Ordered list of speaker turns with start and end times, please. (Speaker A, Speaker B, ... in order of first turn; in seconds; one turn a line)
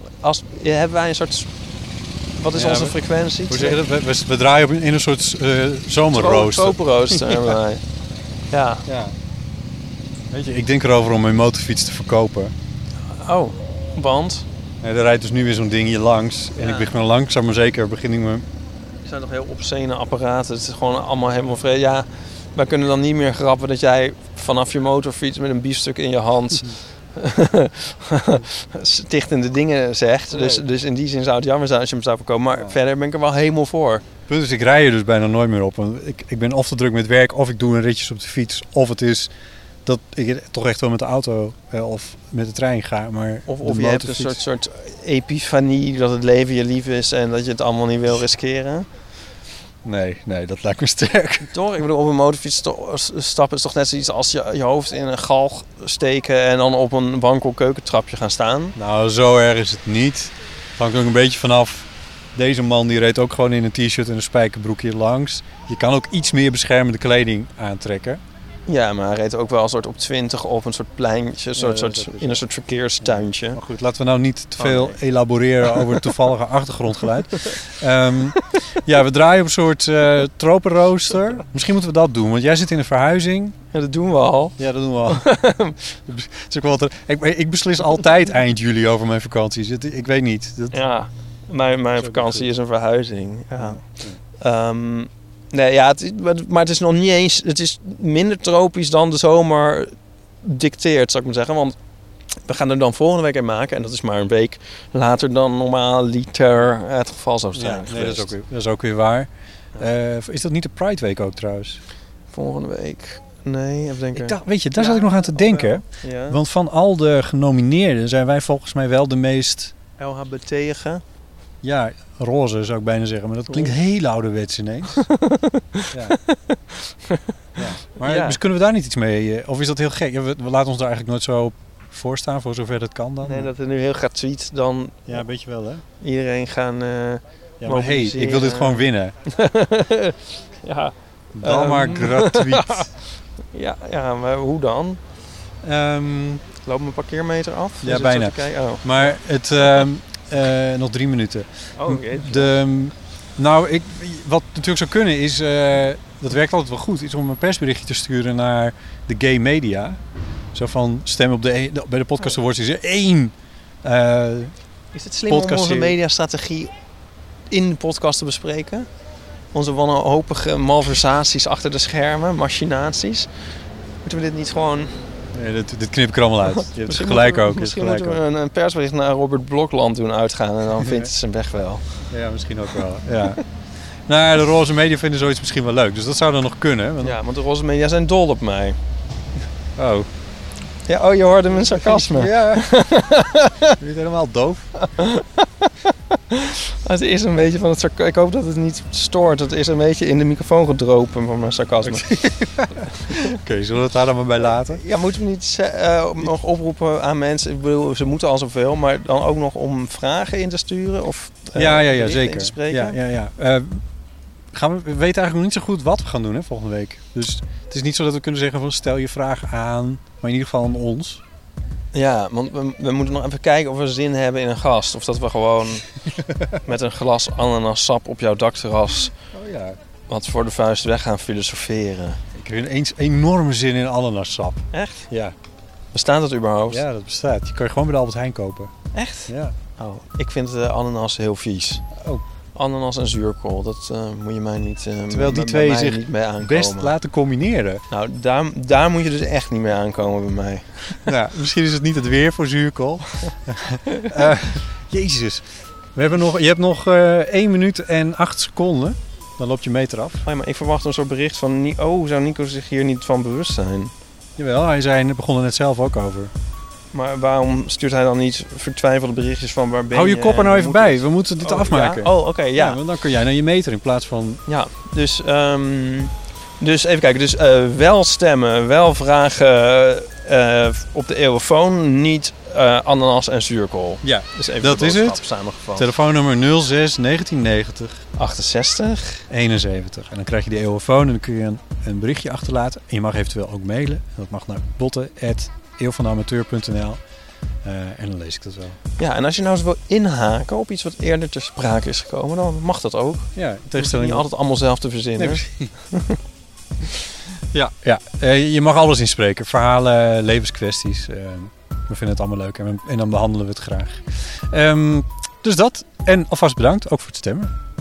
Speaker A: 0.2-1.5
Speaker A: 2.4-3.8
Speaker B: 2.5-3.0
Speaker B: 3.5-7.5
Speaker A: 6.1-7.8
Speaker A: 8.5-8.8
Speaker B: 8.8-9.1
Speaker B: 10.3-12.5
Speaker A: 13.1-14.4
Speaker B: 14.8-18.4
Speaker A: 16.6-16.9
Speaker A: 19.0-34.0
Speaker B: 30.3-30.6
Speaker B: 34.3-39.3
Speaker B: 39.8-44.4
Speaker A: 43.5-48.9
Speaker B: 49.8-51.5
Speaker A: 51.5-58.8
Speaker B: 58.8-68.2
Speaker A: 68.7-73.6
Speaker B: 71.5-72.5
Speaker B: 73.0-83.5
Speaker A: 74.6-75.0
Speaker A: 75.6-76.2
Speaker A: 77.1-77.6
Speaker A: 83.7-85.8
Speaker B: 84.6-85.3
Speaker B: 86.1-90.8
Speaker A: 90.7-93.8
Speaker B: 92.0-92.5
Speaker B: 93.6-94.2
Speaker A: 94.4-99.9
Speaker A: 100.4-101.8
Speaker A: 102.5-108.3
Speaker B: 107.5-111.8
Speaker A: 112.3-116.4
Speaker B: 114.1-119.7
Speaker A: 120.0-121.0
Speaker B: 121.6-125.1
Speaker A: 123.5-123.7
Speaker A: 125.0-126.5
Speaker B: 125.9-126.2
Speaker B: 127.6-133.5
Speaker A: 128.0-128.4
Speaker A: 133.2-135.2
Speaker B: 135.1-135.8
Speaker A: 136.0-142.9
Speaker B: 137.6-139.1
Speaker B: 141.3-142.9
Speaker A: 143.5-145.0
Speaker B: 145.6-146.4
Speaker A: 146.6-149.2
Speaker B: 147.8-160.0
Speaker A: 151.8-152.5
Speaker B: 160.5-163.3
Speaker B: 163.8-164.5
Speaker A: 164.9-166.7
Speaker B: 165.3-166.0
Speaker A: 167.5-168.9
Speaker A: 169.5-173.3
Speaker A: 174.0-175.0
Speaker B: 175.3-178.2
Speaker A: 176.5-182.0
Speaker B: 180.8-181.1
Speaker B: 182.1-183.4
Speaker B: 184.1-187.2
Speaker A: 187.0-188.8
Speaker B: 189.8-190.1
Speaker A: 190.8-193.7
Speaker B: 191.5-192.8
Speaker B: 193.8-194.7
Speaker A: 194.8-202.1
Speaker B: 201.8-204.8
Speaker A: 204.5-213.0
Speaker B: 211.5-213.8
Speaker B: 214.5-221.2
Speaker A: 221.9-225.9
Speaker A: 226.6-229.1
Speaker B: 229.3-229.8
Speaker A: 230.1-232.2
Speaker B: 232.3-235.3
Speaker A: 234.7-235.1
Speaker A: 235.9-236.8
Speaker B: 236.7-238.7
Speaker A: 238.9-241.8
Speaker B: 239.3-239.6
Speaker A: 242.5-246.9
Speaker B: 245.1-247.8
Speaker A: 247.9-251.1
Speaker B: 251.1-260.2
Speaker A: 260.2-263.9
Speaker B: 264.4-266.3
Speaker A: 266.9-272.8
Speaker B: 269.9-274.4
Speaker A: 274.5-285.9
Speaker B: 284.0-285.2
Speaker B: 285.7-288.0
Speaker A: 288.1-289.2
Speaker B: 289.3-297.0
Speaker B: 297.6-298.8
Speaker A: 299.0-306.2
Speaker B: 303.4-304.3
Speaker B: 305.2-305.7
Speaker B: 307.5-317.5